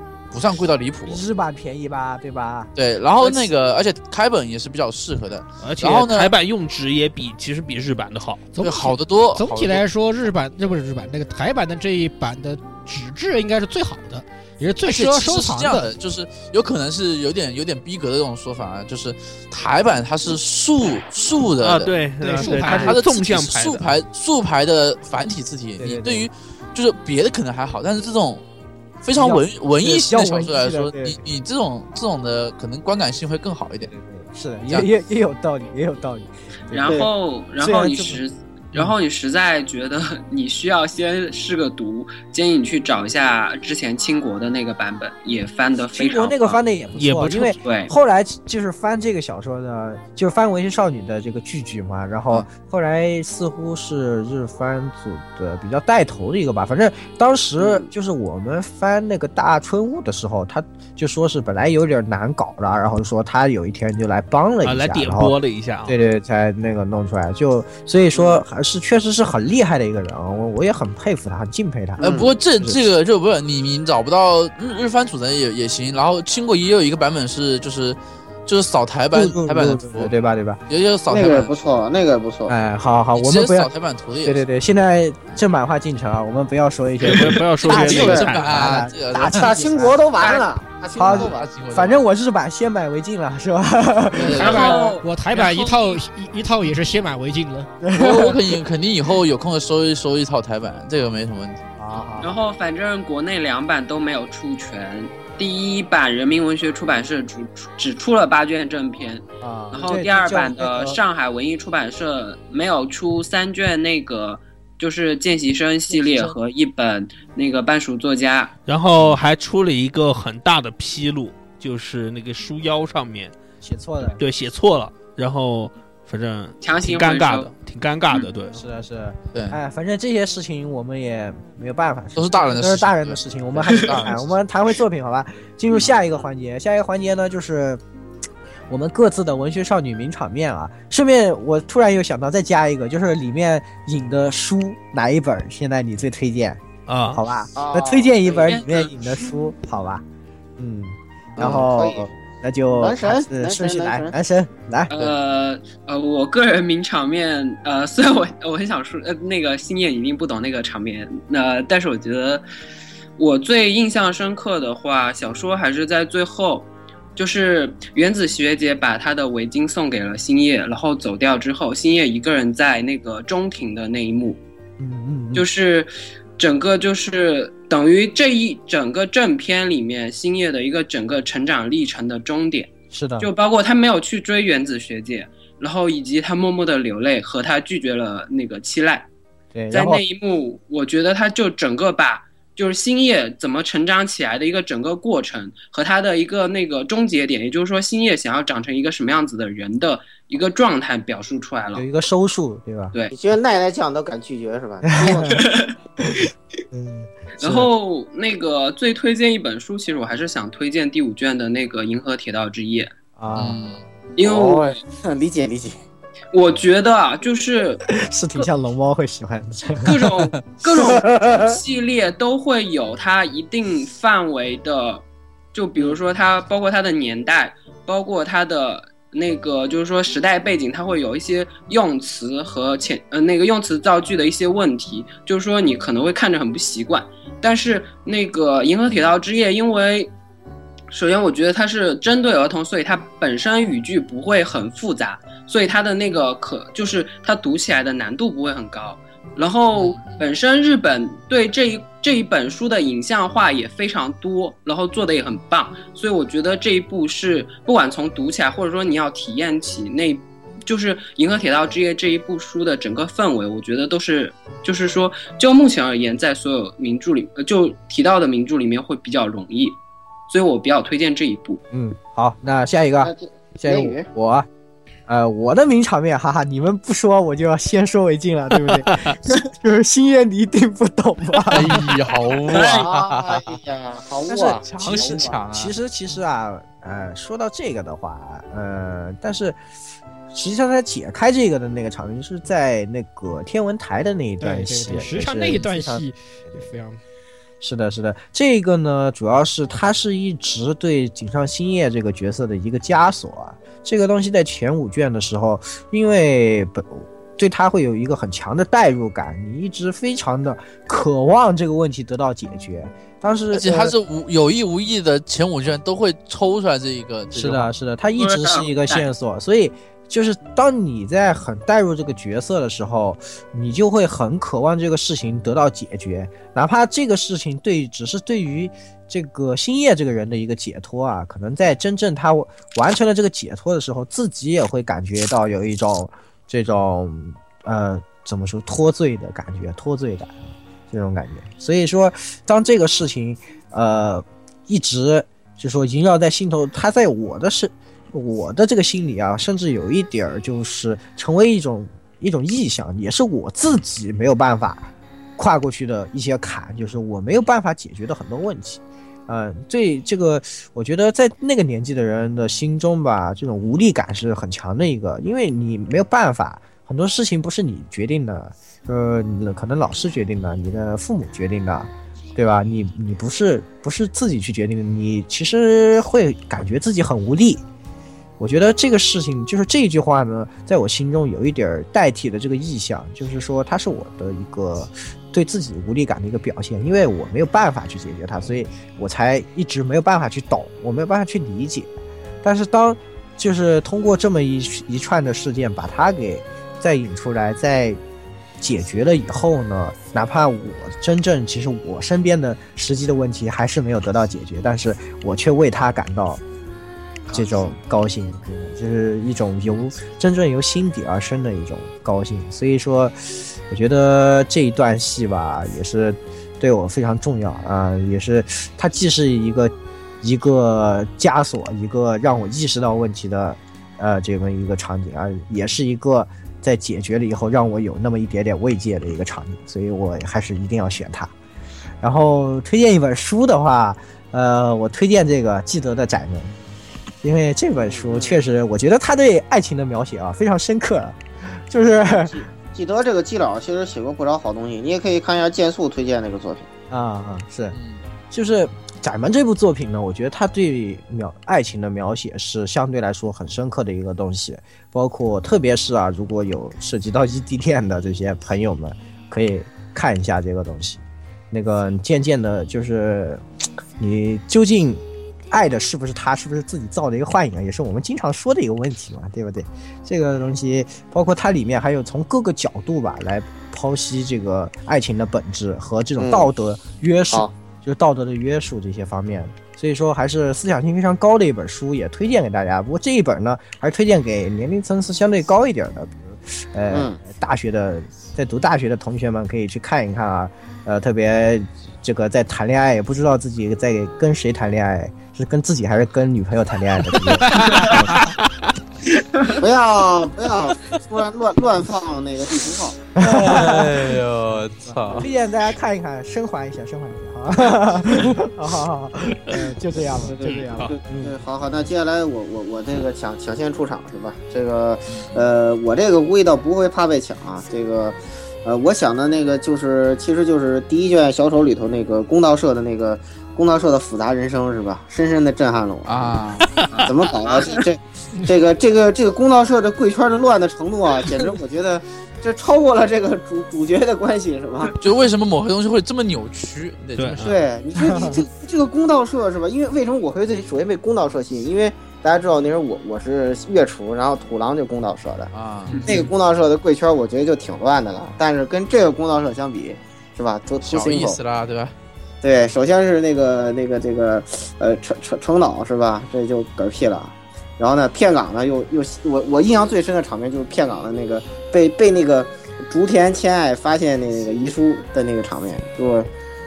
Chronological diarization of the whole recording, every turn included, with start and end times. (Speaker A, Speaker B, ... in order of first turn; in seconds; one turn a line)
Speaker A: 0.3-1.2
Speaker B: 1.1-2.7
Speaker A: 2.7-6.3
Speaker C: 5.6-8.5
Speaker D: 8.5-15.9
Speaker A: 8.6-9.8
Speaker A: 14.9-28.4
Speaker C: 21.6-24.0
Speaker D: 22.2-22.9
Speaker B: 25.8-26.3
Speaker A: 29.0-33.9
Speaker B: 29.1-31.2
Speaker B: 33.9-38.2
Speaker E: 36.7-46.6
Speaker B: 45.9-72.8
Speaker C: 47.0-47.5
Speaker E: 47.5-47.9
Speaker C: 64.6-65.9
Speaker F: 68.1-68.4
Speaker A: 72.0-80.1
Speaker F: 72.0-72.3
Speaker B: 79.1-80.6
Speaker A: 80.7-81.5
Speaker F: 81.1-82.5
Speaker B: 82.5-83.7
Speaker A: 83.1-84.4
Speaker B: 84.2-90.0
Speaker C: 87.0-88.6
Speaker A: 87.6-89.6
Speaker F: 87.7-88.3
Speaker F: 89.1-91.5
Speaker B: 91.0-94.8
Speaker A: 91.0-92.0
Speaker A: 94.1-94.8
Speaker D: 94.4-97.7
Speaker E: 94.4-96.0
Speaker F: 94.5-95.0
Speaker B: 97.8-98.6
Speaker A: 97.9-101.6
Speaker B: 101.8-102.3
Speaker E: 102.2-118.5
Speaker B: 109.4-111.0
Speaker B: 115.9-116.4
Speaker C: 118.7-123.4
Speaker B: 123.6-124.2
Speaker C: 124.2-128.6
Speaker E: 126.6-127.5
Speaker B: 128.5-137.8
Speaker A: 132.2-134.2
Speaker B: 138.7-150.0
Speaker C: 146.9-147.2
Speaker F: 147.5-148.6
Speaker E: 148.3-149.1
Speaker B: 150.6-154.9
Speaker F: 151.4-152.1
Speaker F: 152.7-154.1
Speaker E: 154.9-162.4
Speaker E: 163.2-174.4
Speaker B: 174.8-175.4
Speaker E: 175.3-189.1
Speaker B: 182.9-183.3
Speaker B: 189.5-190.0
Speaker E: 189.7-201.9
Speaker B: 201.7-202.9
Speaker F: 203.1-205.4
Speaker B: 204.8-205.4
Speaker E: 205.0-205.7
Speaker B: 206.0-207.7
Speaker E: 207.4-212.9
Speaker B: 213.2-213.8
Speaker A: 213.3-213.8
Speaker E: 214.2-214.8
Speaker F: 214.2-215.8
Speaker E: 216.3-217.8
Speaker B: 217.9-220.3
Speaker E: 219.8-240.1
Speaker F: 220.7-221.6
Speaker E: 240.9-269.8
Speaker A: 249.7-250.2
Speaker E: 270.3-271.6
Speaker B: 271.7-274.5
Speaker F: 273.0-274.1
Speaker B: 275.1-281.9
Speaker A: 281.5-283.6
Speaker F: 282.4-285.4
Speaker B: 284.3-289.6
Speaker A: 284.5-285.7
Speaker B: 290.3-296.6
Speaker D: 294.4-297.0
Speaker B: 297.6-313.9
Speaker A: 313.5-317.7
Speaker B: 317.3-340.3
Speaker E: 318.2-319.1
Speaker B: 340.9-377.6
Speaker B: 378.4-391.9
Speaker B: 392.4-398.0
Speaker B: 398.6-406.4
Speaker B: 407.3-413.1
Speaker B: 413.7-431.3
Speaker B: 432.0-436.5
Speaker B: 437.2-442.4
Speaker F: 437.8-438.4
Speaker F: 442.1-446.7
Speaker B: 446.9-447.8
Speaker A: 447.7-448.0
Speaker B: 448.3-463.4
Speaker B: 464.0-498.3
Speaker F: 476.2-476.5
Speaker F: 486.9-487.2
Speaker C: 497.5-498.3
Speaker F: 499.5-503.0
Speaker B: 503.1-504.2
Speaker A: 503.2-505.3
Speaker B: 505.1-511.4
Speaker F: 510.2-526.4
Speaker C: 510.4-510.9
Speaker A: 526.0-526.7
Speaker C: 526.6-527.1
Speaker E: 526.9-527.7
Speaker F: 527.0-534.9
Speaker A: 535.0-537.5
Speaker C: 537.2-537.6
Speaker F: 537.4-545.5
Speaker B: 538.0-538.4
Speaker A: 545.5-546.1
Speaker C: 545.9-546.2
Speaker F: 546.1-551.4
Speaker A: 550.8-551.9
Speaker F: 552.4-566.3